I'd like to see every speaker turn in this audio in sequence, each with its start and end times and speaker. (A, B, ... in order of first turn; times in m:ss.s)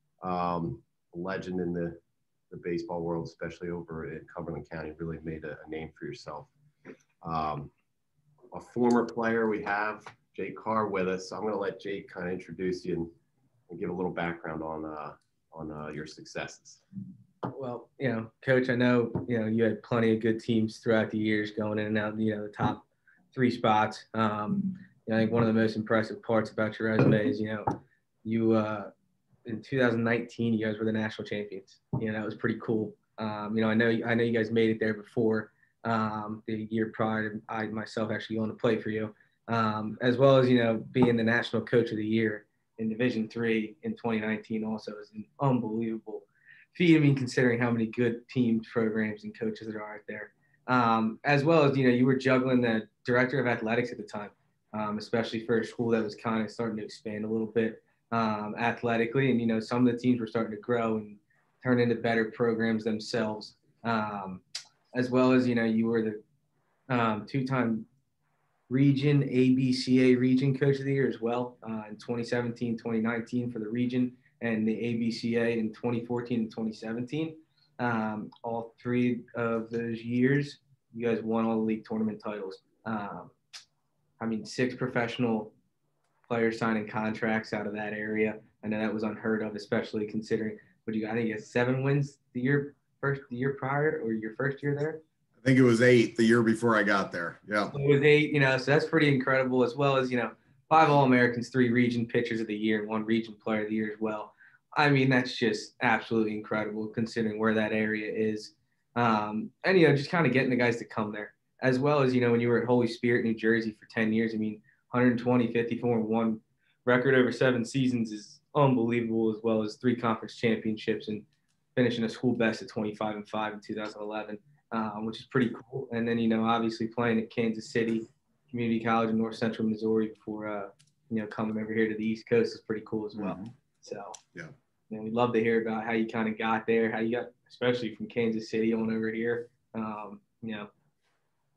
0:00.2-0:06.5 A
0:07.2-0:07.7 A
0:08.5-0:13.1 A
0:13.7-0:16.8 A
0:17.5-0:27.7 B
0:28.2-0:28.9 B
0:29.5-1:04.4 B
1:04.9-1:06.2 B
1:06.9-1:07.9 B
1:08.7-1:23.3 B
1:24.2-1:25.5 B
1:26.3-1:35.0 B
1:35.4-1:37.7 C
1:37.7-2:01.2 B
2:01.8-2:14.2 B
2:13.2-2:13.5 C
2:14.9-2:20.7 B